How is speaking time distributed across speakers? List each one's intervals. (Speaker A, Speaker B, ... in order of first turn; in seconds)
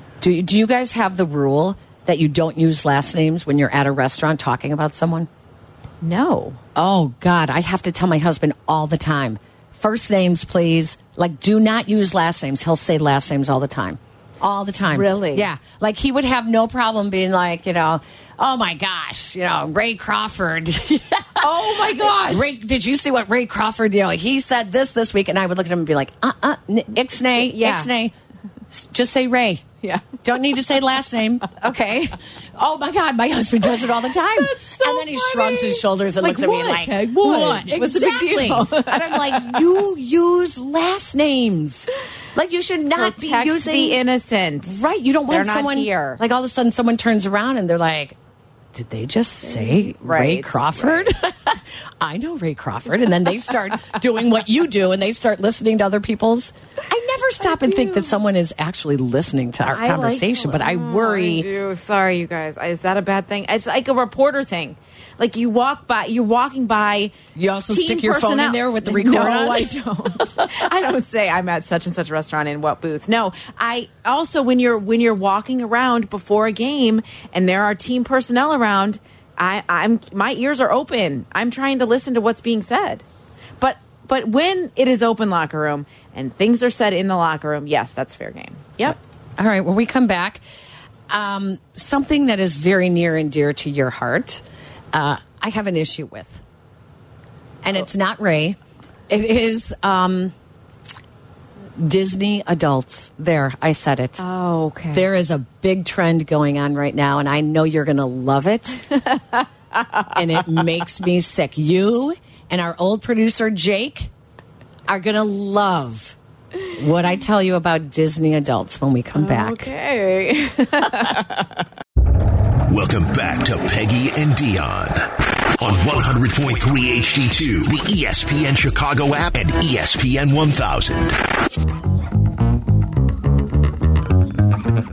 Speaker A: 0.2-5.3, 6.8-28.1, 28.7-29.6, 30.2-44.0, 44.6-48.1, 48.7-61.5, 67.3-69.7, 88.8-90.4, 91.1-96.4, 97.6-98.6, 99.1-100.3, 101.8-104.2, 104.9-108.8, 110.1-114.1, 114.9-116.2, 116.7-119.7
Speaker B: 6.0-6.6, 14.9-15.5, 21.4-22.6, 27.2-27.9, 29.8-30.2, 33.6-39.7, 42.9-46.2, 49.4-51.1, 57.4-58.1, 59.6-67.1, 67.7-83.0, 83.6-89.0, 104.2-105.1, 109.0-110.1, 119.1-121.5
Speaker C: 122.7-131.2